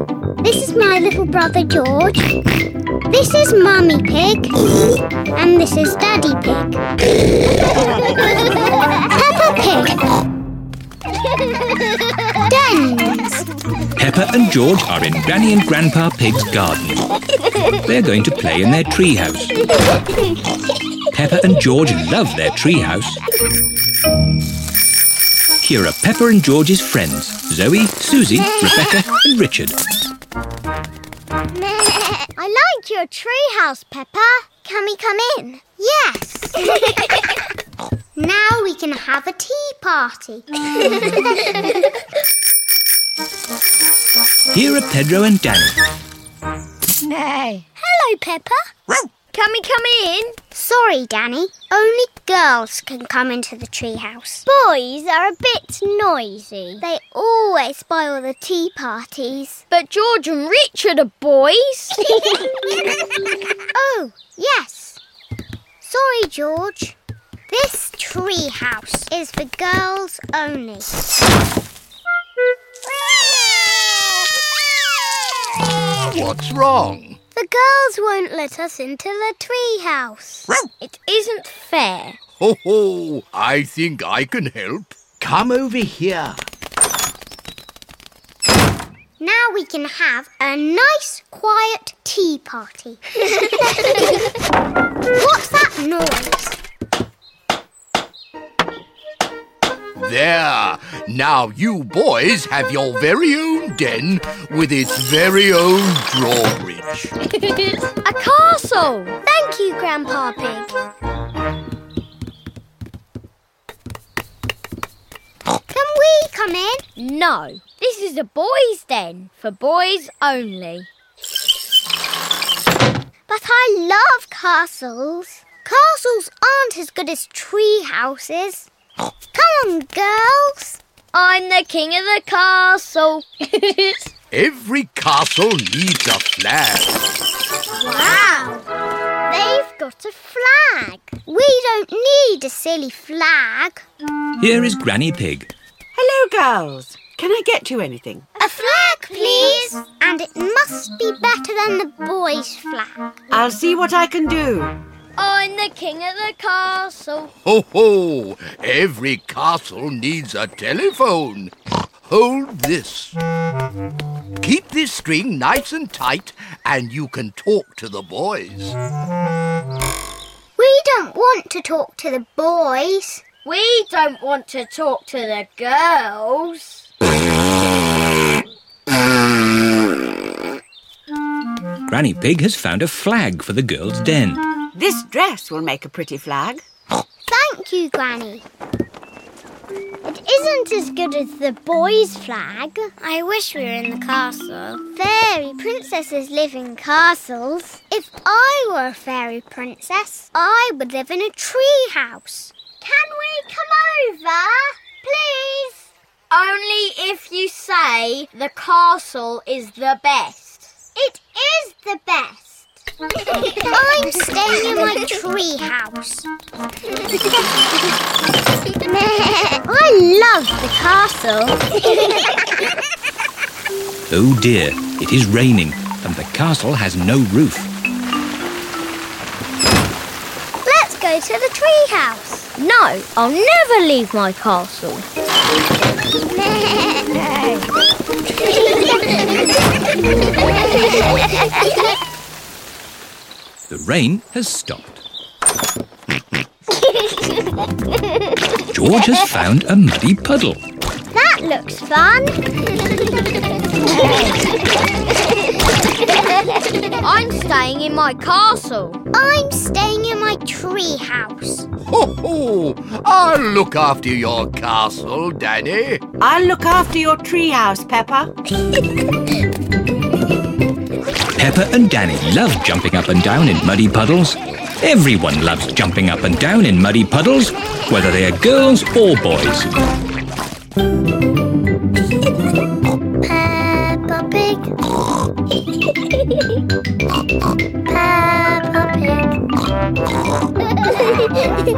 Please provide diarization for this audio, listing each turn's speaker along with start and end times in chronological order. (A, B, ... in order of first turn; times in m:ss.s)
0:00.4-0:02.4 A
0:03.1-0:04.5 A
0:05.4-0:06.8 A
0:09.0-0:10.0 A
0:12.4-0:13.5 A
0:14.0-0:17.1 B
0:17.8-0:19.5 B
0:21.1-0:23.2 B
0:25.6-0:29.8 B
0:31.6-0:36.7 A
0:38.2-0:41.7 A
0:44.5-0:45.8 B
0:47.8-0:48.6 A
0:49.2-0:50.4 C
0:50.5-0:54.5 A
0:54.5-0:56.8 C
0:56.8-0:59.6 A
0:59.7-1:02.0 C
1:03.8-1:05.0 A
1:05.8-1:07.0 A
1:07.5-1:11.0 A
1:16.1-1:17.2 D
1:17.4-1:20.5 A
1:20.8-1:22.2 C
1:22.4-1:26.4 D
1:29.2-1:34.0 A
1:35.1-1:36.6 A
1:40.0-1:47.1 D
1:47.3-1:49.2 C
1:49.2-1:50.7 A
1:55.7-1:56.8 A
1:57.0-2:00.9 C
2:03.3-2:08.7 A
2:09.3-2:10.8 A
2:11.1-2:14.1 C
2:14.3-2:17.0 D
2:17.8-2:18.6 A
2:19.3-2:23.8 A
2:24.4-2:25.5 B
2:26.0-2:28.2 E
2:28.4-2:33.0 A
2:28.8-2:29.7 C
2:33.3-2:34.7 E
2:35.2-2:37.3 C
2:37.4-2:41.5 D
2:42.1-2:43.2 D
2:44.4-2:48.8 D
2:50.6-2:53.2 A
2:53.4-2:56.9 C
3:01.9-3:04.4 B
3:04.8-3:06.6 E
3:07.3-3:08.4 A
3:10.0-3:25.8 A
3:26.3-3:30.7 C
3:31.0-3:32.7 A
3:33.6-3:36.3 A
3:39.3-3:42.1 A
3:44.1-3:47.7 B
3:50.6-3:52.5 A
3:52.6-3:55.1 C
3:56.6-3:57.2 A
4:03.7-4:05.0 B
4:08.7-4:10.6 B
4:11.1-4:12.4 A
4:17.0-4:19.0 C
4:19.1-4:21.7 A
4:21.9-4:26.0 D
4:26.2-4:28.3 E
4:31.4-4:39.7 B
4:43.2-4:44.7 A
4:47.9-4:49.4 A